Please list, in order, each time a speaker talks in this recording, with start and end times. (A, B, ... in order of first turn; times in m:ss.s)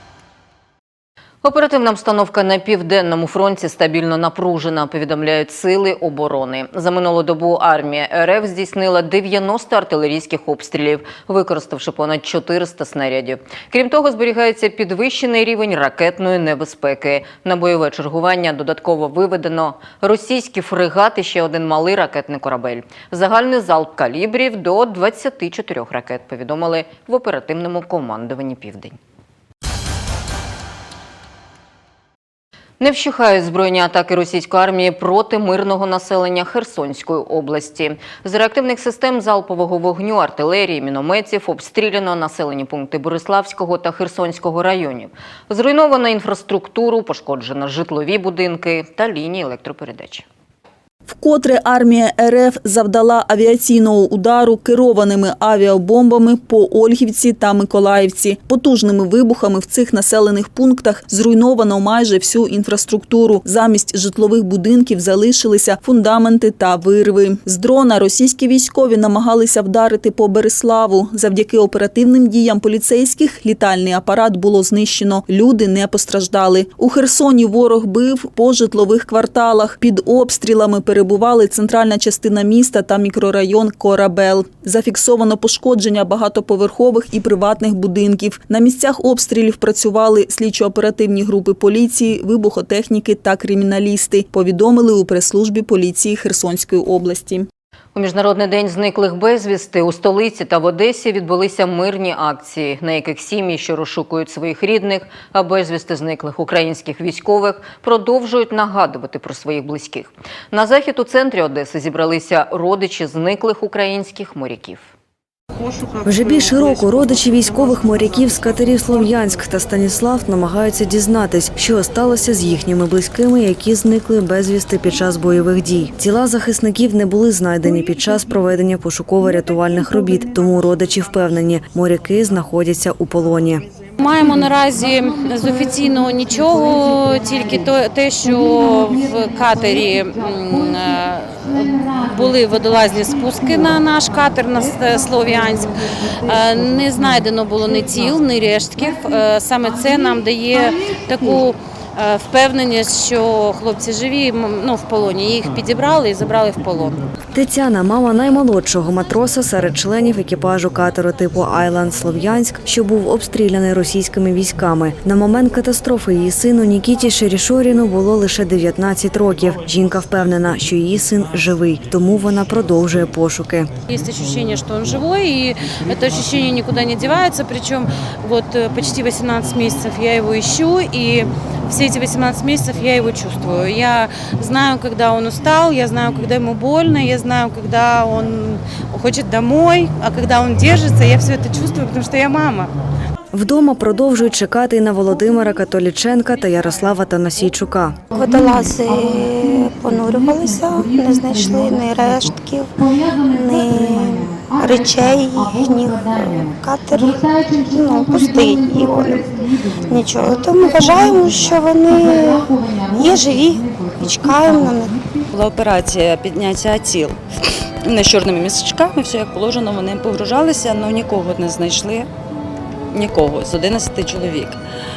0:01.4-0:29.0 A
0:32.8-0:50.2 A
0:51.1-1:37.5 B
1:37.9-1:54.9 A
1:56.0-2:13.6 C
2:14.0-2:37.0 D
2:37.3-2:53.7 C
2:53.9-3:12.7 D
3:13.3-3:18.0 C
3:18.1-3:22.7 E
3:23.2-3:29.3 E
3:29.9-3:35.0 E
3:35.3-3:37.2 F
3:37.8-3:42.1 F
3:42.9-3:44.6 F